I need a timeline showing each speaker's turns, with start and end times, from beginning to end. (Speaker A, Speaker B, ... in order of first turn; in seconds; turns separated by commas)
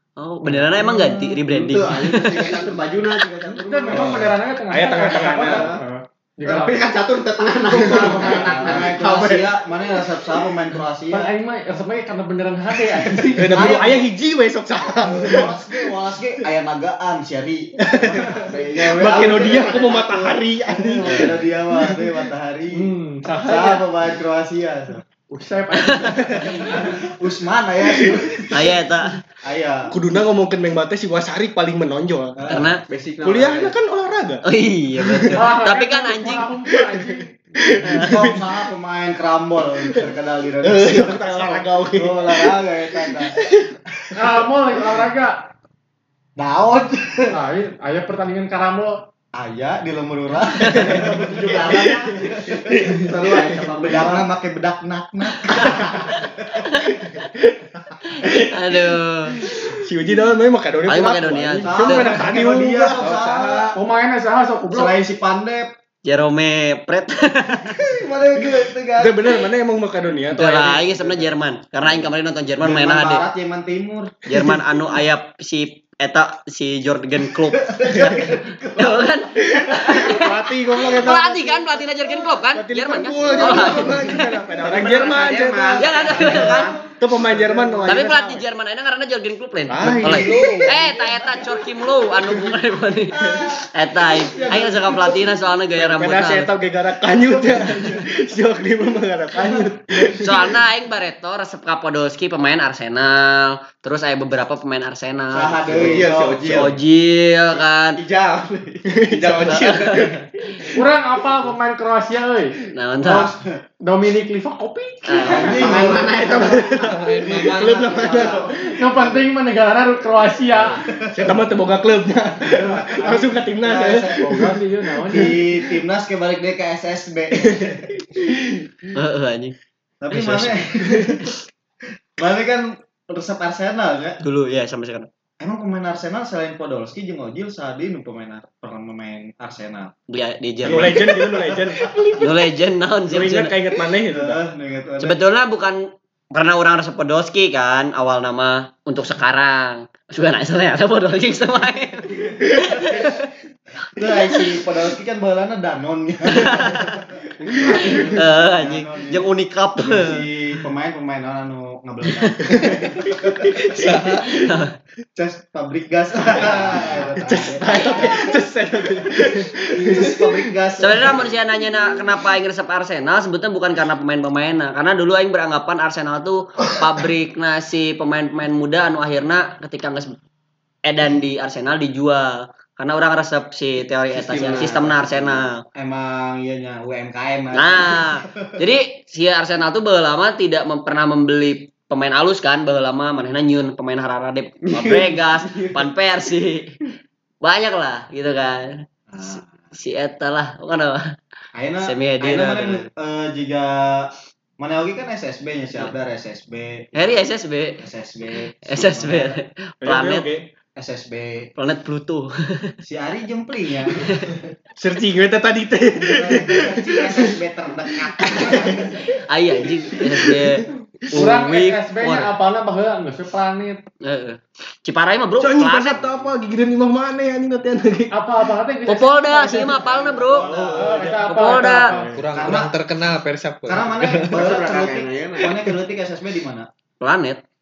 Speaker A: 0.2-2.6, Speaker B: 0.5-0.7, Speaker C: 0.7-1.4, Speaker D: 1.5-4.3, Speaker C: 2.3-3.6, Speaker B: 3.6-6.8, Speaker E: 3.9-5.7, Speaker D: 5.1-5.8, Speaker D: 6.5-9.6, Speaker C: 7.7-11.3, Speaker B: 8.0-8.6, Speaker D: 10.2-10.5, Speaker B: 11.1-13.6, Speaker C: 13.1-14.1, Speaker E: 13.3-15.7, Speaker C: 14.9-25.0, Speaker E: 17.8-21.9, Speaker D: 18.3-20.4, Speaker B: 22.7-23.9, Speaker B: 25.3-26.9, Speaker A: 25.7-26.4, Speaker E: 26.1-26.6, Speaker C: 26.3-28.9, Speaker E: 27.9-28.5, Speaker A: 28.5-29.2, Speaker C: 29.4-29.9, Speaker E: 29.9-32.7, Speaker C: 32.4-32.8, Speaker A: 32.5-32.8, Speaker D: 32.9-33.8, Speaker E: 33.2-34.4, Speaker A: 34.4-36.5, Speaker E: 35.0-35.5, Speaker B: 35.4-37.4, Speaker E: 36.7-38.5, Speaker C: 38.0-44.4, Speaker E: 40.6-43.7, Speaker D: 41.2-41.6, Speaker B: 44.2-45.5, Speaker C: 46.4-47.4, Speaker B: 47.3-49.0, Speaker C: 49.3-56.6, Speaker E: 50.7-51.0, Speaker D: 50.9-54.3, Speaker E: 51.6-52.2, Speaker E: 53.3-53.7, Speaker E: 56.9-58.8, Speaker A: 58.2-59.4, Speaker E: 59.4-63.7, Speaker A: 60.9-62.2, Speaker C: 61.6-63.8, Speaker B: 63.8-64.9, Speaker C: 64.7-65.7, Speaker A: 66.0-67.8, Speaker C: 67.7-69.5, Speaker E: 69.0-71.3, Speaker A: 70.3-73.3, Speaker C: 72.6-74.2, Speaker A: 74.3-77.7, Speaker C: 77.4-80.3, Speaker E: 77.9-78.3, Speaker A: 78.8-84.3, Speaker E: 79.6-79.9, Speaker D: 80.1-81.8, Speaker C: 82.1-82.3, Speaker E: 82.5-88.2, Speaker D: 83.2-88.4, Speaker A: 85.8-86.7, Speaker C: 86.3-86.8, Speaker A: 87.9-96.5, Speaker E: 89.7-90.7, Speaker D: 90.2-90.7, Speaker C: 90.3-91.4, Speaker C: 93.1-95.5, Speaker E: 95.8-100.4, Speaker C: 97.2-98.1, Speaker C: 99.4-100.2, Speaker A: 100.2-108.0, Speaker C: 105.3-106.8, Speaker D: 105.7-106.8, Speaker D: 107.5-110.8, Speaker E: 108.9-110.2, Speaker A: 109.5-110.3, Speaker B: 110.7-116.0, Speaker A: 112.7-113.3, Speaker C: 113.1-113.6, Speaker A: 115.1-115.8, Speaker C: 115.2-118.5, Speaker D: 115.3-118.5, Speaker E: 116.2-119.1, Speaker F: 116.9-117.9, Speaker B: 118.3-120.9, Speaker C: 120.7-121.5, Speaker E: 121.0-124.5, Speaker D: 122.5-123.3, Speaker C: 123.0-128.0, Speaker B: 124.1-125.4, Speaker E: 127.4-128.6, Speaker A: 128.9-129.6, Speaker C: 130.0-131.3, Speaker A: 130.1-130.6, Speaker C: 132.2-134.2, Speaker A: 134.2-135.1, Speaker C: 135.4-139.9, Speaker A: 140.1-141.1, Speaker C: 140.6-142.2, Speaker E: 140.7-142.1, Speaker A: 142.2-143.6, Speaker E: 143.1-144.4, Speaker C: 144.0-145.2, Speaker A: 145.0-153.2, Speaker C: 152.8-153.2, Speaker C: 153.9-164.3, Speaker A: 156.3-157.0, Speaker A: 157.8-160.3, Speaker A: 162.2-162.6, Speaker E: 162.6-164.5, Speaker A: 164.3-164.7, Speaker C: 165.2-168.4, Speaker E: 166.5-170.5, Speaker A: 167.7-168.1, Speaker C: 169.1-171.3, Speaker A: 170.8-180.2, Speaker A: 180.8-185.6, Speaker D: 184.1-185.4, Speaker C: 185.7-188.7, Speaker A: 187.5-196.8, Speaker D: 194.7-195.9, Speaker A: 197.4-201.1, Speaker C: 199.1-199.5, Speaker C: 201.5-207.2, Speaker A: 201.8-202.9, Speaker A: 206.9-207.8, Speaker C: 207.8-209.4, Speaker A: 208.7-210.3, Speaker E: 209.8-210.5, Speaker C: 210.8-211.5, Speaker A: 211.6-212.7, Speaker C: 212.8-214.5, Speaker E: 214.8-217.4, Speaker C: 216.0-219.0, Speaker E: 218.1-218.9, Speaker A: 219.3-222.3, Speaker B: 221.1-223.8, Speaker A: 224.0-226.0, Speaker E: 225.4-228.4, Speaker B: 228.1-229.8, Speaker A: 228.9-230.5, Speaker C: 229.8-231.1, Speaker E: 230.5-231.2, Speaker B: 230.7-232.3, Speaker A: 231.3-231.9, Speaker F: 231.3-234.5, Speaker E: 231.9-232.2, Speaker C: 232.3-232.8, Speaker C: 233.7-236.7, Speaker D: 234.3-235.6, Speaker A: 237.0-237.4